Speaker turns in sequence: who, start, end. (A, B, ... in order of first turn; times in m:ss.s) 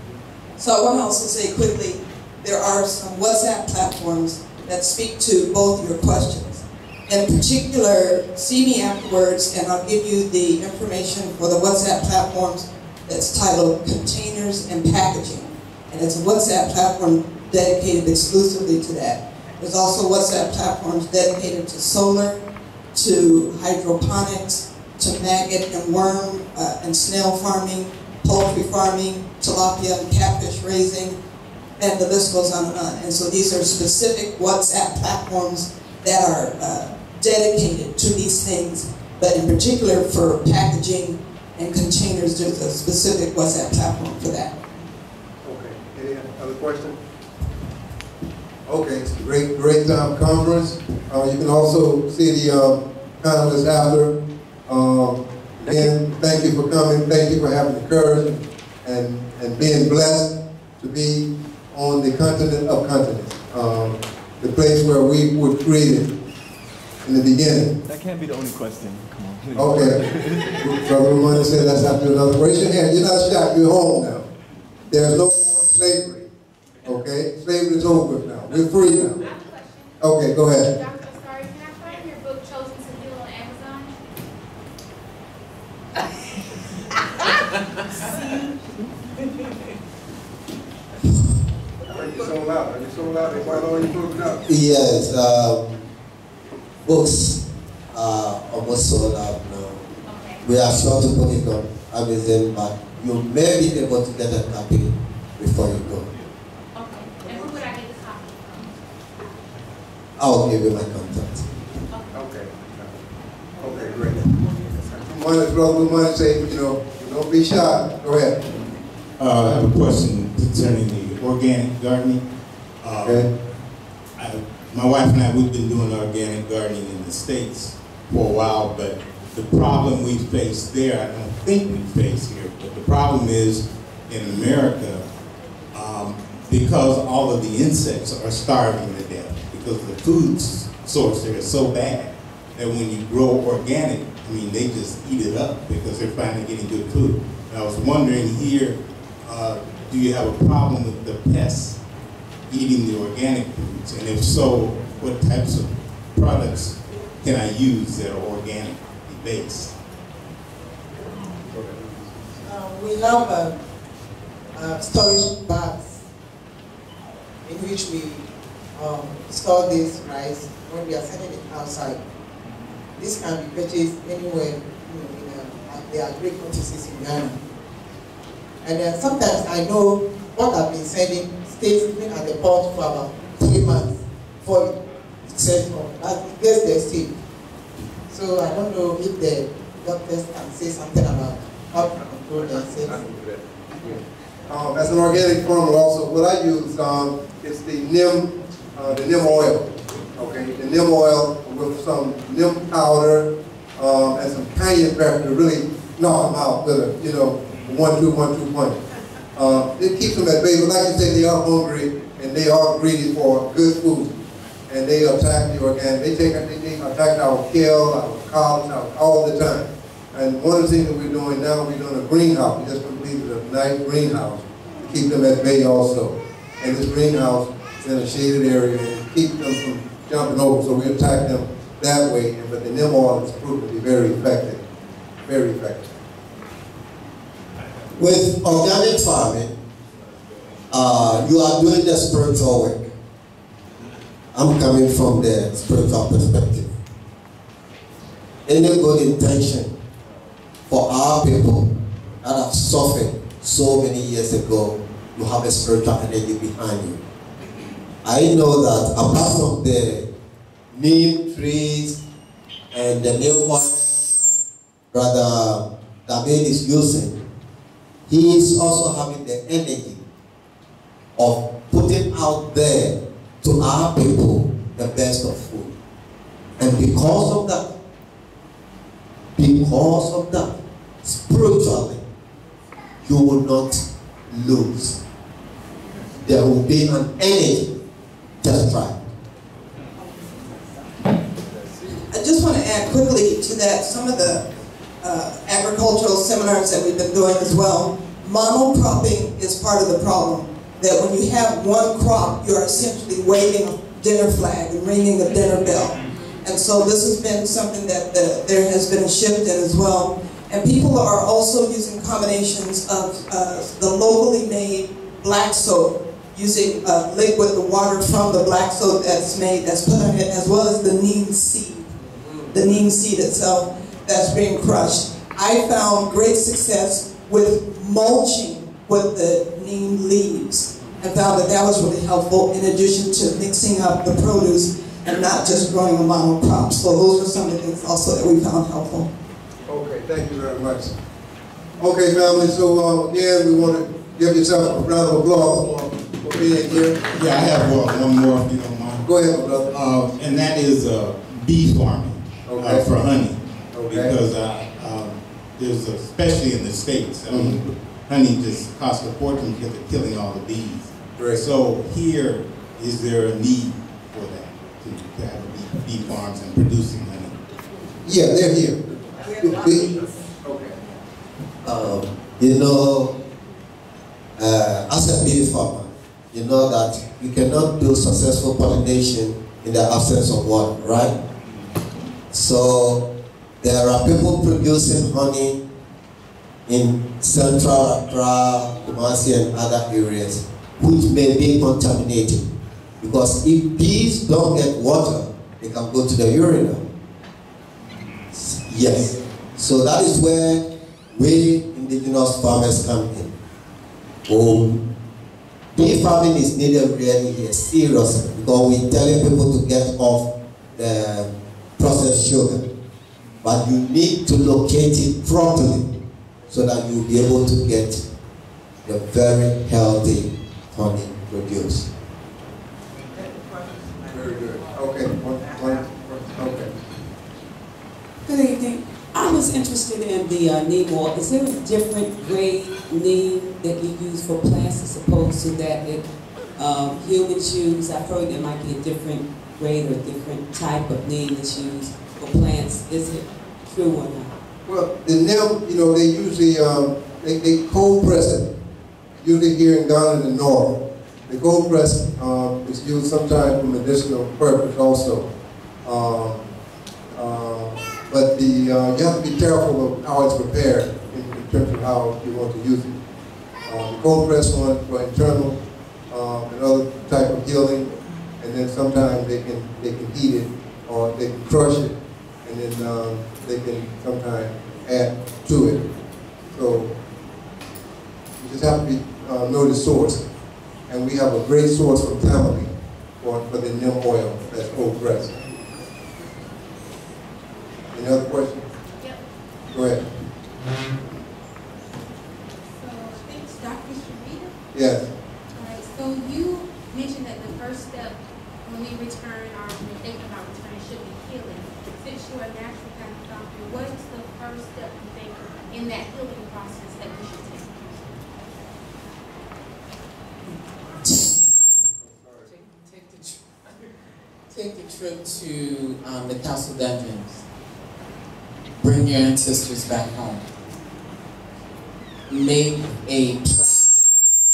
0:00.6-0:22.4 A
0:22.9-0:31.2 A
0:31.8-0:44.5 A
0:45.4-0:47.0 B
0:48.6-1:06.1 B
1:07.0-1:07.7 B
1:07.9-1:10.9 C
1:09.6-1:10.0 B
1:10.6-1:14.3 B
1:14.9-1:16.3 B
1:16.8-1:19.2 B
1:19.1-1:24.0 D
1:20.0-1:20.7 B
1:31.8-1:34.5 B
1:34.4-1:35.7 E
1:36.8-1:37.4 E
1:37.9-1:39.8 E
1:40.1-1:40.4 D
1:40.4-1:46.1 E
1:46.7-1:48.8 D
1:50.2-1:51.4 E
1:51.9-1:52.2 D
1:52.1-1:52.9 B
1:53.6-1:58.4 B
1:59.2-2:02.2 F
2:02.8-2:03.3 F
2:03.0-2:03.3 B
2:04.2-2:15.0 F
2:15.7-2:31.8 F
2:32.5-2:39.8 F
2:42.4-2:43.5 G
2:44.5-2:46.0 G
2:47.4-2:48.2 G
2:48.8-2:52.0 G
2:52.9-2:57.4 G
2:58.6-3:04.7 G
3:05.3-3:07.2 G
3:08.1-3:13.0 G
3:13.8-3:28.8 B
3:29.3-3:34.1 B
3:34.7-3:54.6 B
3:55.2-3:55.9 B
3:58.0-3:59.6 E
4:00.7-4:02.9 E
4:04.3-4:06.7 E
4:08.4-4:09.7 E
4:10.7-4:17.0 E
4:18.0-4:20.1 E
4:20.7-4:22.0 E
4:22.7-4:24.1 E
4:24.9-4:27.2 E
4:28.1-4:30.0 E
4:31.2-4:35.7 E
4:36.6-4:37.7 E
4:39.4-4:42.0 E
4:43.0-4:45.0 E
4:46.2-4:47.7 E
4:48.4-4:49.0 E
4:52.1-4:54.4 A
4:55.0-5:21.9 A
5:22.5-5:39.1 A
5:39.6-5:40.9 B
5:41.8-5:47.0 B
5:47.1-5:49.1 F
5:49.0-5:49.7 B
5:49.7-6:07.3 F
5:52.4-5:52.9 B
5:53.7-5:54.2 B
5:57.3-5:57.6 B
6:01.1-6:01.4 B
6:08.0-6:10.8 B
6:11.6-6:13.1 E
6:14.4-6:21.1 E
6:22.3-6:23.0 E
6:23.6-6:25.6 E
6:26.7-6:32.5 E
6:33.0-6:36.8 E
6:38.3-6:43.3 E
6:44.3-6:44.8 E
6:45.7-6:52.6 E
6:53.4-6:55.9 E
6:56.5-6:58.0 E
6:58.8-7:01.9 E
7:04.0-7:06.7 B
7:08.2-7:16.0 H
7:16.6-7:24.4 H
7:24.6-7:28.5 B
7:29.2-7:35.3 B
7:35.8-7:36.4 B
7:37.1-7:43.0 B
7:43.6-7:55.8 B
7:56.5-7:56.9 B
7:58.4-8:00.2 B
8:00.9-8:05.3 B
8:07.9-8:08.7 B
8:09.7-8:10.0 B
8:12.7-8:14.5 D
8:14.7-8:15.1 B
8:15.5-8:28.0 D
8:32.0-8:32.5 B
8:32.5-8:33.4 I
8:34.5-8:37.4 I
8:38.8-8:40.4 I
8:42.3-8:43.9 I